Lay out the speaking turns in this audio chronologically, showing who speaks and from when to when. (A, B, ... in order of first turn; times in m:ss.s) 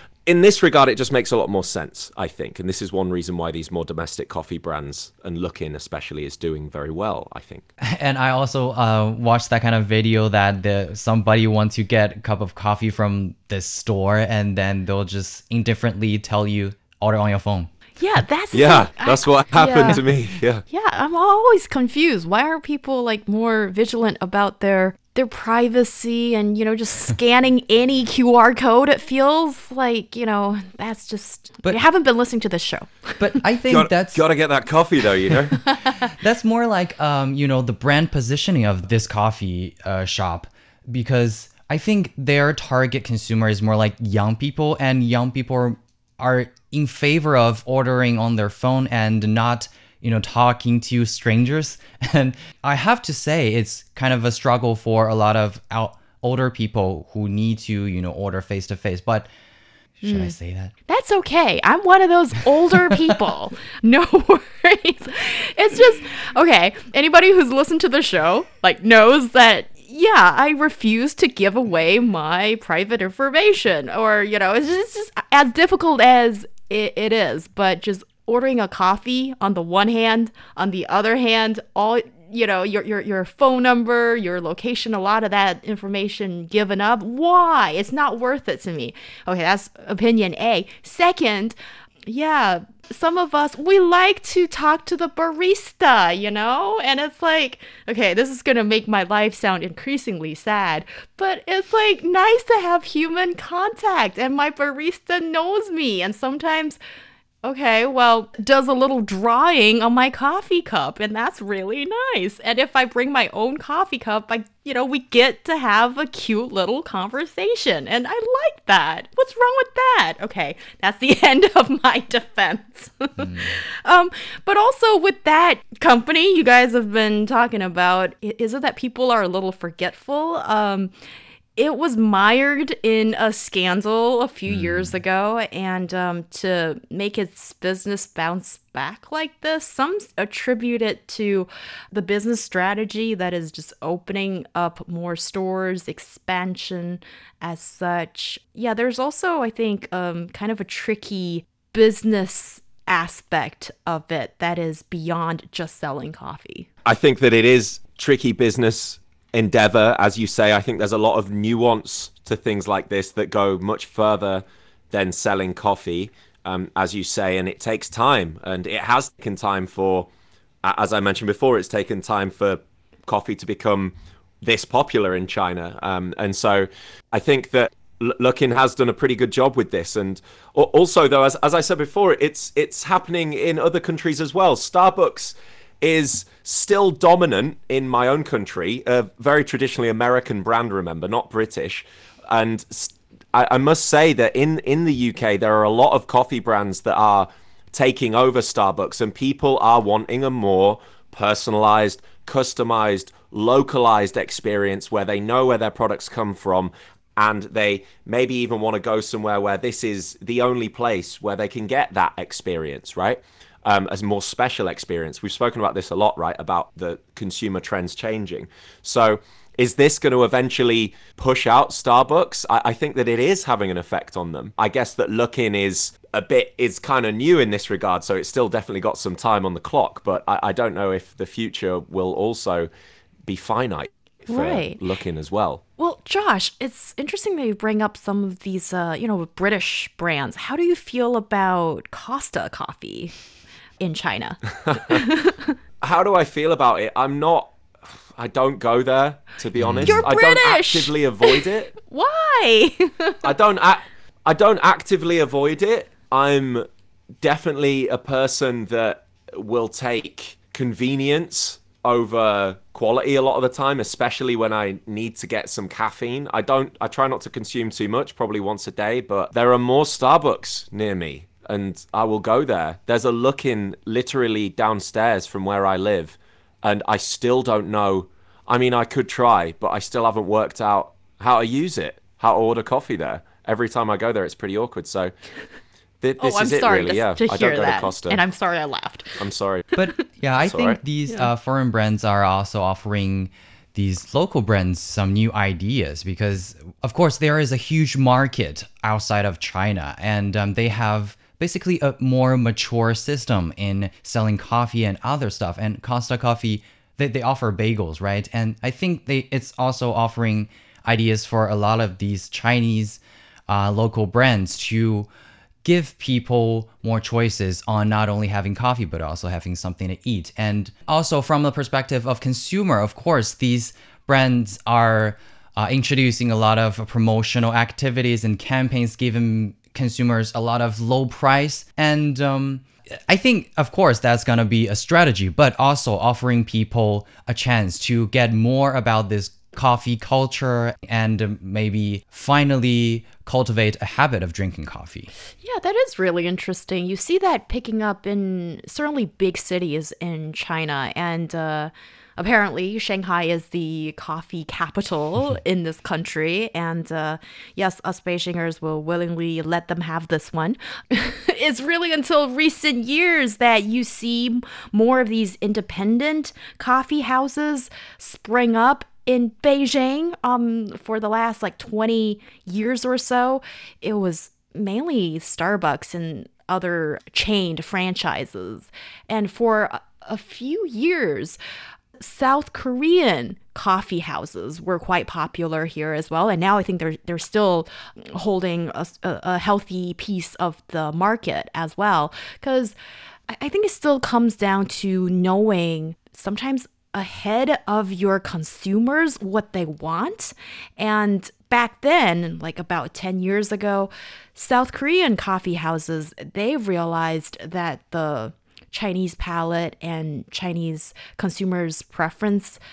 0:00.2-0:07.7 A
0:07.8-0:17.7 B
0:18.0-0:20.0 C
0:18.5-0:20.6 A
0:20.7-0:33.4 C
0:33.2-0:34.2 B
0:33.7-0:35.6 A
0:36.0-0:59.3 B
1:00.0-1:00.7 B
1:00.0-1:00.3 C
1:00.9-1:46.8 C
1:47.4-2:10.9 C
2:03.2-2:03.6 B
2:11.6-2:36.7 C
2:14.5-2:15.0 B
2:36.8-2:50.1 A
2:50.6-3:52.7 A
3:53.2-3:55.6 A
3:54.3-3:54.8 C
3:55.8-4:03.1 C
4:03.8-4:05.5 C
4:04.7-4:05.0 A
4:05.8-4:07.5 A
4:08.1-4:11.7 A
4:09.6-4:10.0 B
4:09.8-4:13.2 C
4:13.2-4:16.7 A
4:17.2-4:45.1 A
4:46.0-4:48.2 A
4:46.2-4:49.2 C
4:49.2-4:49.7 A
4:49.8-5:15.1 B
4:50.4-4:50.8 A
5:15.6-5:45.1 B
5:45.4-6:21.4 C
6:22.0-6:32.8 C
6:33.3-6:52.6 C